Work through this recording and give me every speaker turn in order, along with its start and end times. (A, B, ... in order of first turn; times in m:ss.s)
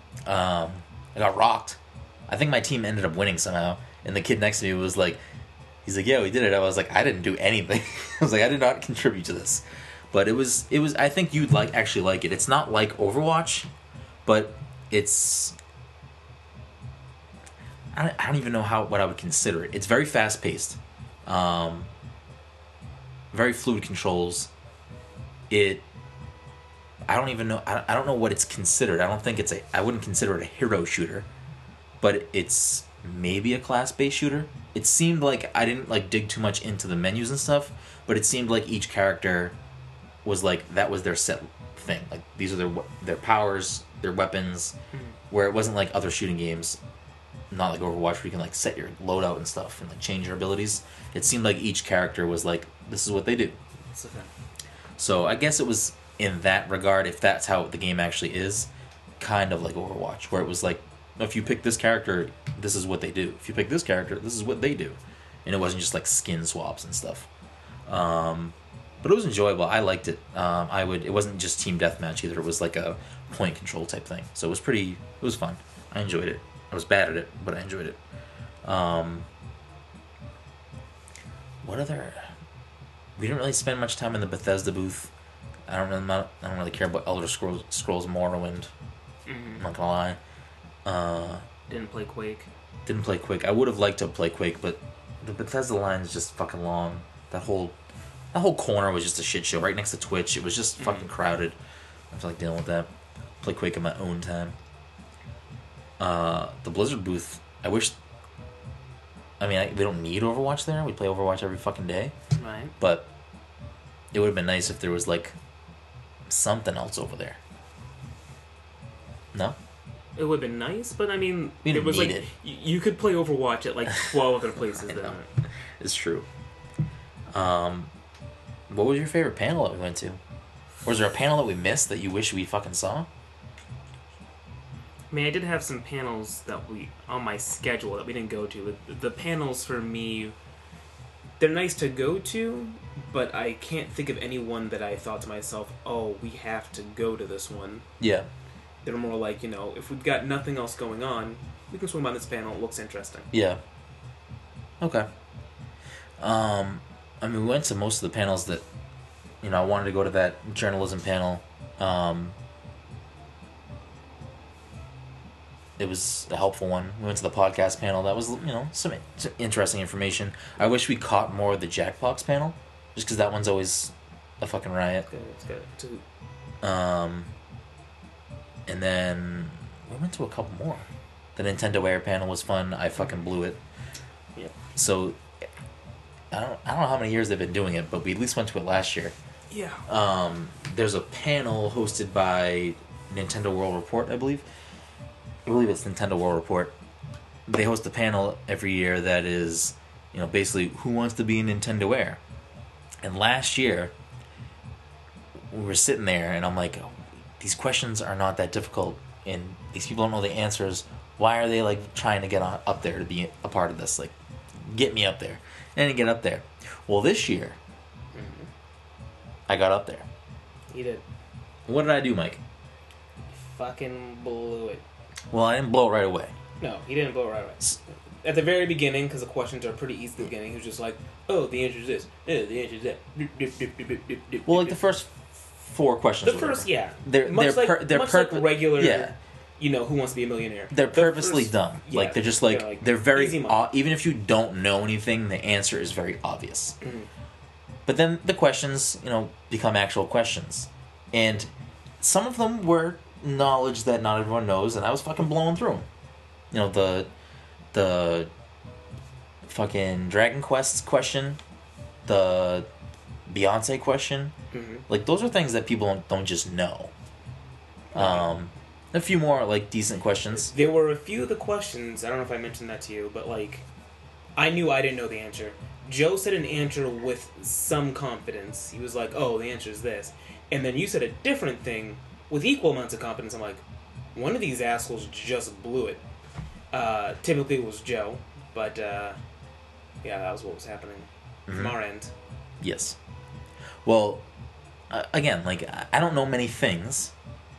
0:00.3-0:05.2 A
0:05.8-0:13.7 A
0:14.3-0:15.6 A
0:17.9-0:21.9 A
0:23.3-0:24.5 A
0:25.5-0:25.8 A
0:27.1-0:31.3 A
0:32.0-0:39.6 A
0:40.2-0:44.8 A
0:45.3-0:46.8 A
0:47.5-0:53.6 A
0:53.9-0:54.3 B
0:55.0-1:07.3 A
1:07.9-1:18.0 A
1:18.6-1:19.3 A
1:21.6-1:22.3 A
1:23.2-1:25.1 A
1:25.7-1:28.7 A
1:29.3-1:29.6 B
1:29.6-1:30.2 A
1:30.8-1:31.4 A
1:31.7-1:32.5 B
1:32.9-1:37.8 A
1:38.3-1:41.6 A
1:40.8-1:41.1 B
1:42.1-1:42.9 A
1:43.4-1:44.6 A
1:46.0-1:48.0 A
1:49.4-1:52.1 A
1:52.3-1:52.7 B
1:52.8-1:53.1 A
1:54.1-1:55.4 A
1:56.3-1:57.4 A
2:00.2-2:05.3 B
2:01.6-2:02.3 A
2:04.8-2:05.2 A
2:05.8-2:06.3 A
2:07.3-2:07.9 A
2:08.7-2:10.2 A
2:10.9-2:13.1 A
2:15.1-2:20.4 B
2:21.4-2:27.9 B
2:28.0-2:28.3 A
2:28.8-2:33.3 B
2:33.3-2:33.6 A
2:34.8-2:35.1 A
2:36.2-2:38.6 A
2:39.4-2:42.4 A
2:45.8-2:55.1 A
2:55.1-2:56.0 B
2:56.6-2:57.3 A
2:58.7-3:03.6 A
3:04.7-3:05.2 A
3:06.3-3:09.1 A
3:09.5-3:09.8 B
3:09.9-3:14.4 A
3:15.5-3:16.7 A
3:17.5-3:22.2 A
3:23.0-3:23.9 A
3:25.5-3:37.6 A
3:38.1-3:38.5 B
3:39.5-3:40.1 A
3:40.7-3:41.0 B
3:41.7-3:42.4 A
3:43.3-3:44.8 B
3:45.3-3:46.3 A
3:46.6-3:54.8 B
3:54.5-3:59.2 A
3:56.2-4:03.7 B
4:00.7-4:06.8 A
4:06.8-4:07.1 B
4:07.9-4:11.5 A
4:12.0-4:15.9 A
4:16.5-4:17.1 A
4:17.7-4:18.3 A
4:19.5-4:21.4 A
4:22.1-4:22.7 A
4:23.3-4:24.3 A
4:24.5-4:24.8 B
4:24.9-4:26.9 A
4:27.9-4:30.5 A
4:28.0-4:28.3 B
4:30.4-4:33.7 B
4:34.4-4:46.0 B
4:46.7-4:49.2 B
4:50.0-4:52.1 B
4:51.5-4:51.8 A
4:52.6-4:53.0 A
4:53.8-4:54.3 A
4:54.9-4:57.1 A